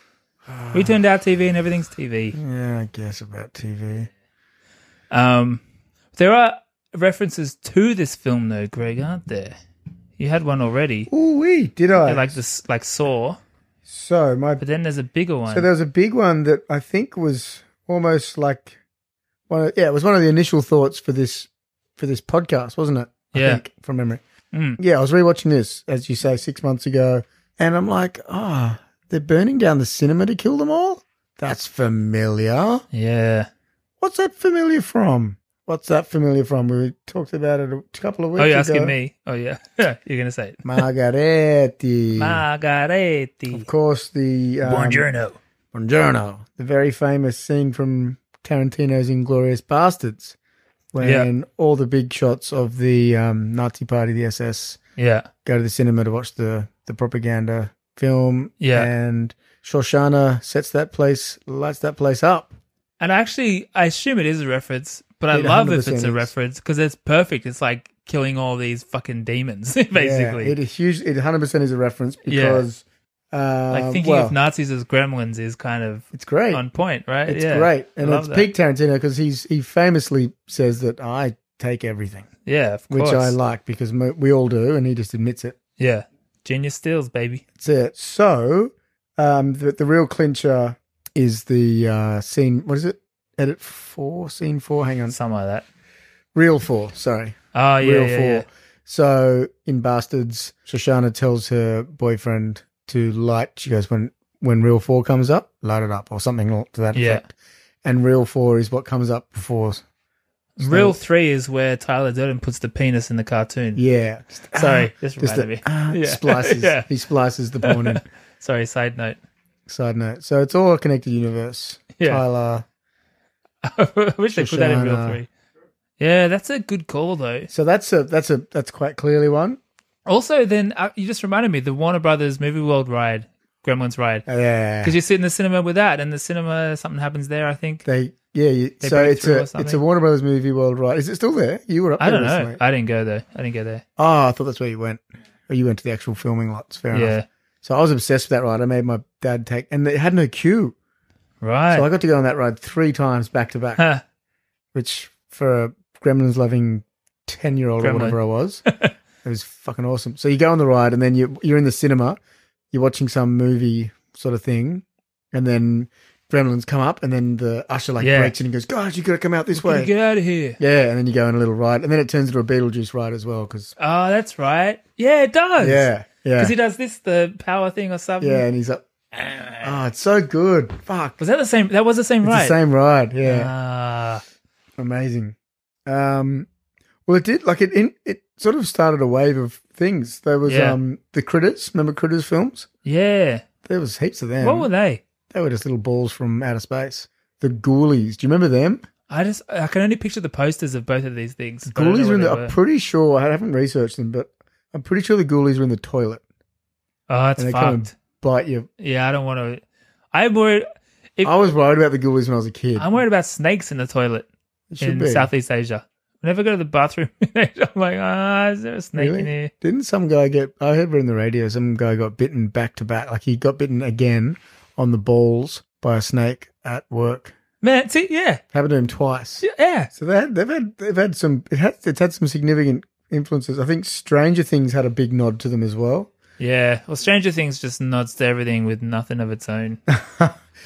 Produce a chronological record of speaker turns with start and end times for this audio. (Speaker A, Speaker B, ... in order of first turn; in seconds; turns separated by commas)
Speaker A: 0.5-1.0, Speaker B: 0.7-2.4, Speaker A: 2.3-4.1, Speaker B: 5.1-5.6, Speaker B: 6.1-9.6, Speaker B: 10.2-11.1, Speaker A: 11.1-12.4, Speaker B: 12.0-13.4, Speaker A: 13.9-14.6, Speaker B: 14.6-15.7, Speaker A: 15.5-18.8, Speaker A: 19.5-24.2, Speaker B: 23.3-23.6, Speaker B: 24.5-24.8, Speaker A: 24.8-32.8, Speaker B: 32.9-33.5, Speaker A: 34.0-38.9, Speaker B: 38.4-40.8, Speaker A: 40.6-42.4, Speaker B: 42.1-43.7, Speaker A: 43.5-45.1, Speaker B: 44.6-45.4, Speaker A: 45.7-50.4, Speaker A: 50.9-54.8, Speaker B: 51.0-51.3, Speaker B: 55.0-55.3, Speaker A: 55.4-62.6, Speaker B: 58.6-58.9, Speaker B: 63.0-70.5, Speaker A: 65.3-66.3, Speaker A: 69.9-74.4, Speaker B: 72.3-72.7, Speaker B: 73.7-78.5, Speaker A: 76.1-76.6, Speaker A: 77.2-82.3, Speaker B: 82.5-83.3, Speaker A: 82.9-85.6, Speaker B: 85.8-87.4, Speaker A: 87.6-95.2, Speaker B: 95.1-95.6, Speaker A: 96.3-107.3, Speaker B: 97.5-98.5, Speaker B: 106.9-107.2, Speaker A: 107.8-109.8, Speaker B: 110.6-113.8, Speaker A: 110.6-111.0, Speaker A: 113.8-118.0, Speaker B: 114.5-116.8, Speaker B: 117.6-119.2, Speaker A: 119.7-122.6, Speaker B: 122.0-122.2, Speaker B: 123.6-125.3, Speaker A: 124.3-125.2, Speaker B: 126.0-127.5, Speaker A: 127.5-129.6, Speaker B: 130.1-134.2, Speaker A: 134.3-134.9, Speaker B: 134.8-137.8, Speaker A: 137.8-142.6, Speaker B: 138.8-139.8, Speaker B: 142.0-143.8, Speaker A: 144.0-150.7, Speaker B: 146.9-147.2, Speaker B: 151.4-151.9, Speaker A: 151.7-153.8, Speaker A: 154.7-158.6, Speaker B: 157.8-158.9, Speaker A: 159.2-162.2, Speaker A: 162.7-169.9, Speaker B: 168.0-168.3, Speaker B: 169.5-170.6, Speaker A: 170.6-173.7, Speaker B: 173.8-178.4, Speaker A: 175.6-176.5, Speaker A: 178.2-178.8, Speaker A: 179.6-181.2, Speaker B: 181.2-182.6, Speaker A: 182.2-183.5, Speaker B: 183.2-184.2, Speaker A: 184.8-185.3, Speaker A: 185.8-186.5, Speaker A: 187.1-192.7, Speaker B: 190.4-190.8, Speaker B: 192.8-193.4, Speaker A: 193.6-194.7, Speaker B: 194.4-195.0, Speaker A: 195.3-198.8, Speaker B: 199.1-202.5, Speaker A: 201.7-206.2, Speaker B: 207.1-207.9, Speaker A: 207.4-208.7, Speaker B: 208.8-209.6, Speaker B: 210.1-211.3, Speaker A: 211.2-212.9, Speaker B: 212.8-214.3, Speaker A: 214.7-215.3, Speaker B: 214.8-219.5, Speaker A: 218.9-227.3, Speaker B: 227.6-228.4, Speaker A: 228.5-236.1, Speaker B: 229.4-229.9, Speaker B: 236.4-239.8, Speaker A: 239.9-240.4